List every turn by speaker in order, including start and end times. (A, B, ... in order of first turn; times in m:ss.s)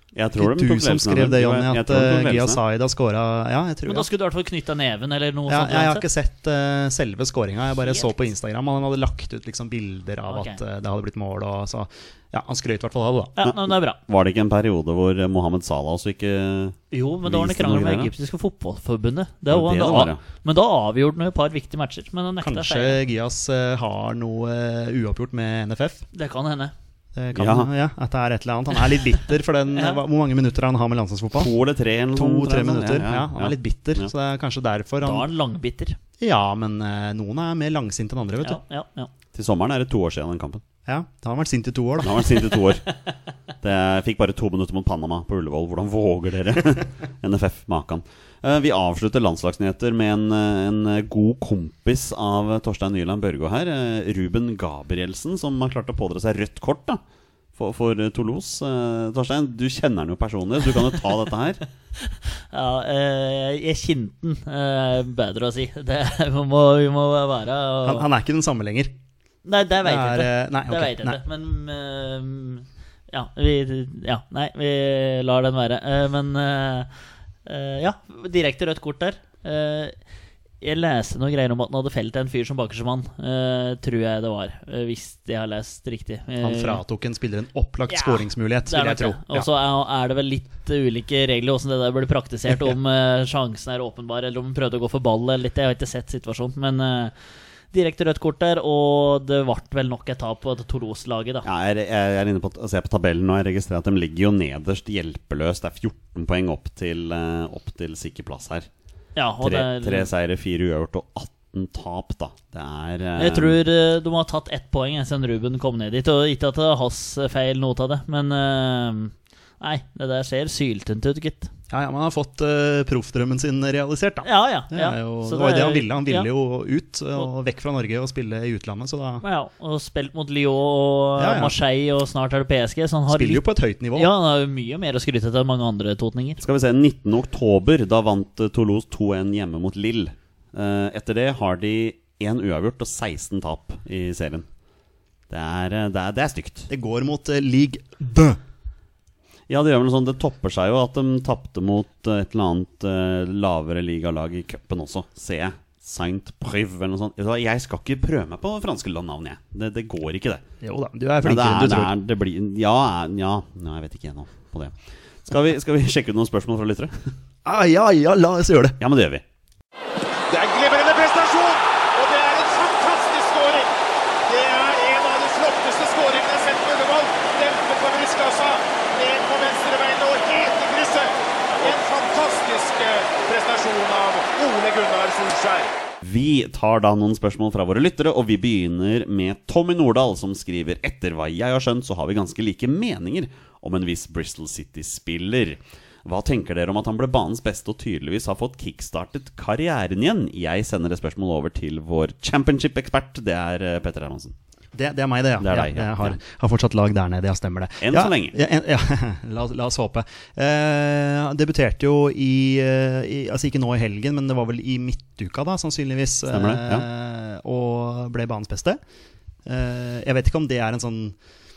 0:00.1-0:02.6 A
0:00.4-0:04.1 B
0:03.9-0:06.0 C
0:05.5-0:13.4 B
0:07.8-0:08.3 C
0:10.3-0:10.6 C
0:13.4-0:14.0 C
0:13.4-0:18.1 A
0:16.9-0:23.0 C
0:19.5-0:20.2 A
0:22.4-0:26.0 B
0:26.1-0:26.7 C
0:27.2-0:31.5 B
0:27.4-0:27.7 A
0:29.7-0:30.0 C
0:31.4-0:34.1 A
0:32.1-0:35.3 B
0:35.0-0:36.0 C
0:36.2-0:38.6 B
0:38.4-0:39.1 C
0:39.3-0:40.6 A
0:40.9-0:42.4 B
0:42.0-0:42.8 A
0:43.6-0:57.0 A
0:57.6-1:01.6 A
1:02.0-1:08.1 C
1:07.8-1:08.9 B
1:09.4-1:16.9 C
1:09.8-1:11.2 B
1:17.5-1:20.0 C
1:20.6-1:26.8 C
1:26.4-1:29.5 B
1:27.9-1:37.1 C
1:37.7-1:41.5 C
1:41.4-1:48.7 A
1:49.2-1:50.1 C
1:49.4-1:53.6 A
1:53.2-2:01.5 C
2:01.7-2:09.2 B
2:04.2-2:06.3 C
2:09.2-2:13.4 C
2:11.2-2:11.6 B
2:13.1-2:14.1 B
2:14.0-2:16.4 C
2:16.4-2:24.5 A
2:25.3-2:26.7 A
2:26.7-2:28.4 B
2:29.5-2:40.4 A
2:40.6-2:41.9 B
2:41.2-2:47.1 A
2:47.4-2:48.8 B
2:48.8-2:49.2 A
2:50.3-2:53.7 D
2:54.3-3:05.7 D
3:06.0-3:24.3 A
3:24.8-3:38.8 B
3:25.4-3:26.2 A
3:27.8-3:28.4 A
3:36.3-3:36.9 A
3:39.4-3:41.2 B